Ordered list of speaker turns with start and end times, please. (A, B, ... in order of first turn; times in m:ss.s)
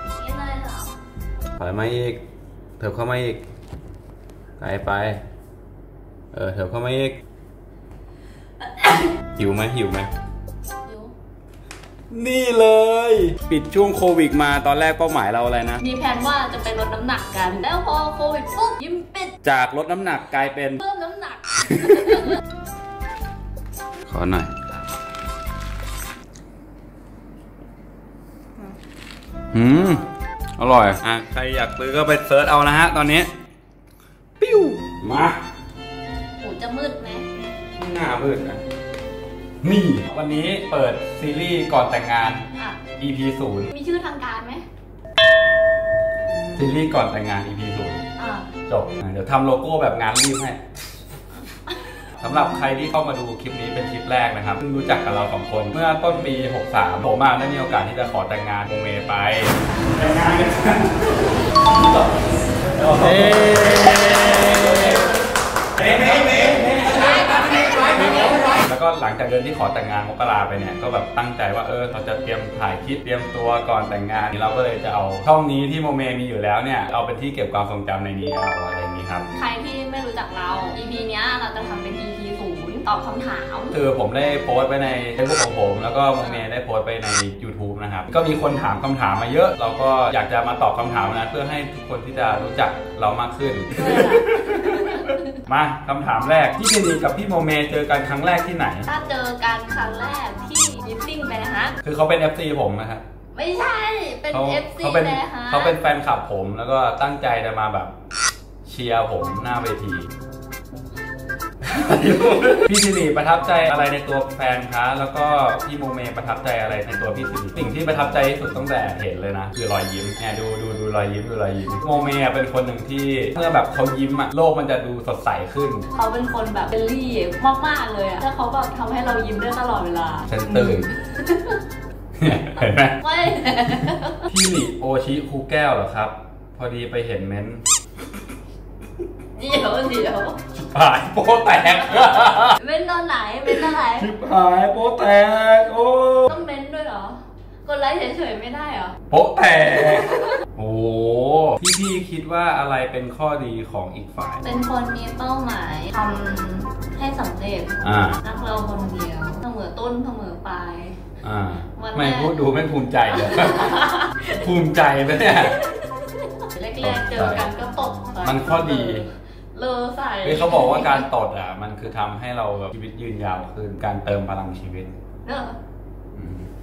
0:00.1-0:01.0 A
0:01.6-0:02.2 B
0:02.8-0:03.4 B
0:04.6-0:05.2 B
0:06.3-0:07.2 B
0:09.4-0:10.1 B
0:10.8-0:11.1 A
0:12.1-0:15.8 B
0:15.8-0:19.4 A
0:19.4-0:20.8 B
0:20.8-0:22.4 A
0:21.6-0:22.4 B
0:24.0-0:24.5 B
0:29.5-0:30.0 B
0:30.6-0:33.3 B
0:34.4-0:35.4 B
0:36.4-0:37.3 A
0:37.8-0:38.6 B
0:39.6-0:42.5 B
0:42.5-0:42.8 A
0:43.0-0:43.7 B
0:43.7-0:44.6 A
0:46.5-0:48.0 B
0:48.2-0:48.5 A
0:48.7-0:50.6 B
0:52.2-1:01.2 B
1:02.8-1:05.0 B
1:05.9-1:06.5 B
1:08.0-1:19.3 B
1:19.3-1:23.8 A
1:23.7-1:38.9 B
1:26.2-1:26.4 A
1:33.7-1:35.4 A
1:38.9-1:41.8 A
1:41.8-1:43.0 B
1:43.3-1:45.8 A
1:44.3-1:47.9 B
1:48.6-1:50.1 B
1:51.6-2:05.9 B
2:05.9-2:11.6 A
2:10.3-2:10.9 B
2:12.2-2:13.0 B
2:13.0-2:14.3 A
2:14.3-2:17.6 B
2:19.4-2:20.4 A
2:20.5-2:22.6 B
2:22.6-2:24.1 A
2:23.5-2:26.4 B
2:26.3-2:29.0 A
2:29.1-2:34.4 B
2:29.8-2:30.4 A
2:34.4-2:41.0 A
2:37.8-2:38.2 B
2:41.2-2:45.6 B
2:41.7-2:42.4 A
2:43.1-2:44.4 A
2:45.4-2:51.1 A
2:46.8-2:47.5 B
2:48.2-2:49.1 B
2:50.2-2:54.9 B
2:55.2-2:55.6 A
2:56.1-2:56.5 B